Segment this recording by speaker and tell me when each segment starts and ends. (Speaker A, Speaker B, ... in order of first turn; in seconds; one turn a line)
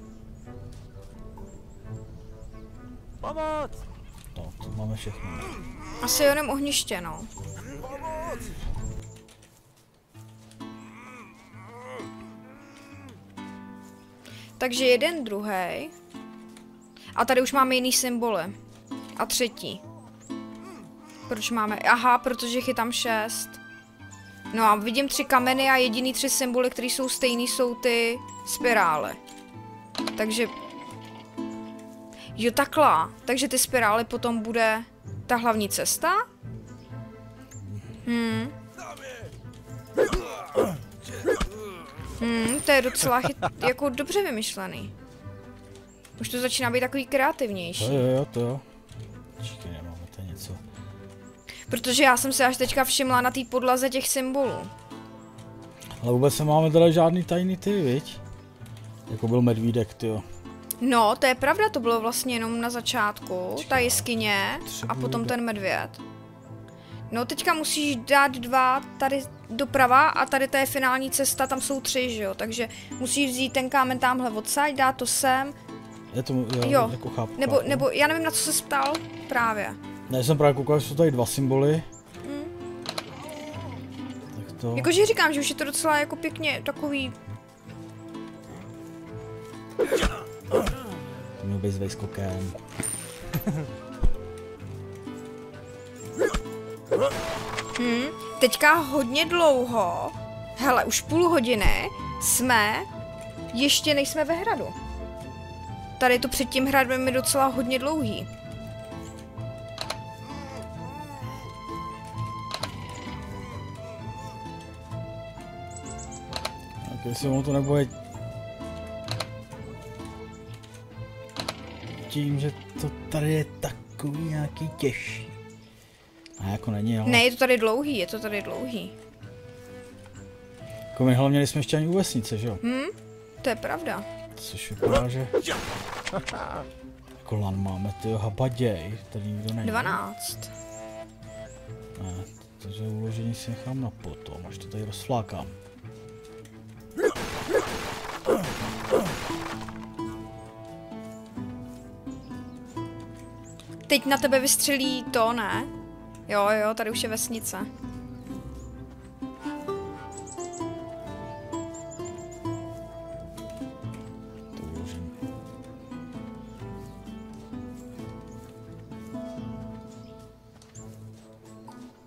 Speaker A: 4.3-5.6
Speaker B: 6.0-7.3
Speaker B: 14.6-15.9
Speaker B: 17.1-18.5
Speaker B: 19.2-19.8
Speaker B: 21.3-23.6
Speaker B: 24.5-29.2
Speaker B: 30.1-30.5
Speaker B: 32.4-36.3
Speaker B: 38.0-38.5
Speaker B: 42.2-44.9
Speaker B: 46.2-48.0
Speaker A: 47.8-48.6
Speaker A: 49.4-50.6
Speaker B: 51.7-54.7
Speaker A: 56.0-58.2
Speaker A: 59.1-60.2
Speaker B: 60.8-66.0
Speaker A: 63.5-65.4
Speaker B: 67.1-75.5
Speaker A: 76.1-77.9
Speaker B: 76.6-79.8
Speaker A: 80.1-81.8
Speaker B: 82.2-82.5
Speaker A: 84.3-84.9
Speaker B: 84.7-87.2
Speaker A: 91.4-92.6
Speaker B: 97.8-102.9
Speaker B: 103.5-104.7
Speaker B: 106.0-108.3
Speaker A: 116.8-117.9
Speaker A: 122.1-125.3
Speaker A: 126.4-127.2
Speaker B: 127.0-128.9
Speaker A: 130.9-132.6
Speaker B: 132.6-134.1
Speaker A: 134.3-135.3
Speaker A: 137.2-140.0
Speaker B: 139.6-140.5
Speaker A: 141.9-145.6
Speaker B: 153.9-155.7
Speaker B: 156.3-157.7
Speaker A: 164.5-165.1